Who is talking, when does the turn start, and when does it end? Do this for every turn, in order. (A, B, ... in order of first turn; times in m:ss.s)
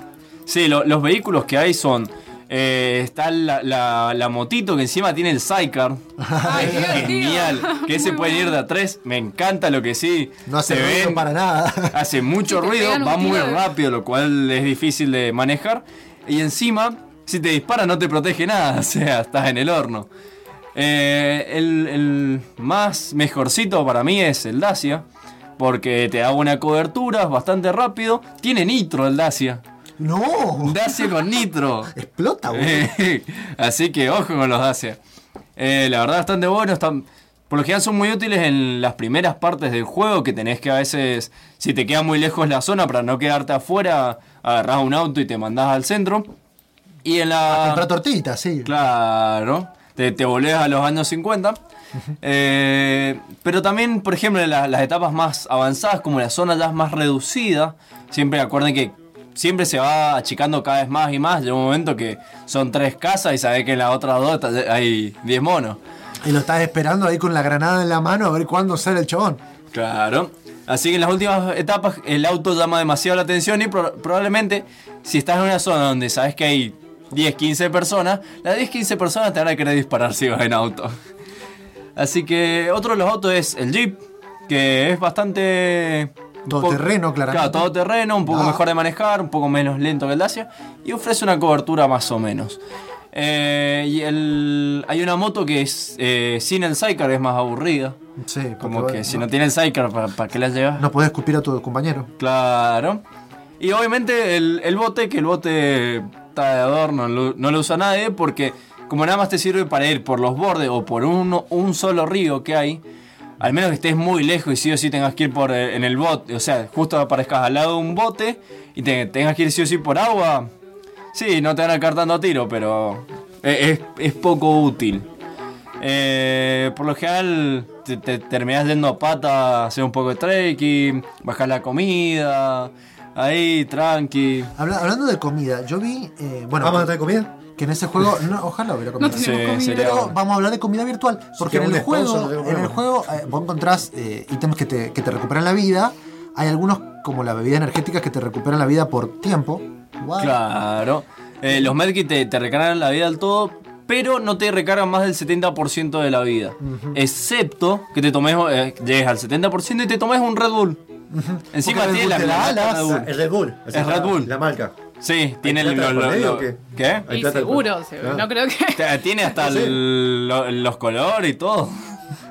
0:00.5-0:06.0 A
0:06.2-0:07.0 B
0:06.4-0:08.6 C
0:06.5-0:11.3 A
0:10.5-0:12.0 B
0:11.9-0:20.1 A
0:12.5-0:13.7 C
0:20.8-0:25.0 A
0:25.6-0:29.6 A
0:30.0-0:30.8 B
0:30.6-0:31.9 A
0:31.9-0:32.9 B
0:32.5-0:35.0 A
0:35.6-0:46.3 A
0:47.0-0:47.9 A
0:47.5-0:48.7 B
0:48.6-0:51.6 A
0:52.2-1:05.8 A
1:06.2-1:09.4 B
1:09.7-1:21.0 A
1:22.0-1:32.6 A
1:26.5-1:28.6 B
1:33.1-1:38.0 A
1:38.2-1:39.3 B
1:38.6-1:40.9 A
1:40.8-1:42.1 B
1:42.2-1:43.0 A
1:43.6-1:52.8 A
1:53.4-2:00.5 A
2:01.1-2:05.1 A
2:05.8-2:14.5 A
2:14.6-2:17.0 B
2:16.6-2:17.3 D
2:17.6-2:30.4 B
2:19.0-2:19.7 C
2:19.0-2:20.1 A
2:21.4-2:22.8 D
2:30.2-2:40.8 A
2:36.6-2:37.0 B
2:41.1-2:43.1 B
2:41.5-2:43.0 A
2:42.5-2:44.7 D
2:43.7-2:44.3 A
2:45.0-2:47.1 A
2:45.4-2:48.2 D
2:47.1-2:49.3 C
2:48.8-2:51.8 A
2:49.4-2:49.8 D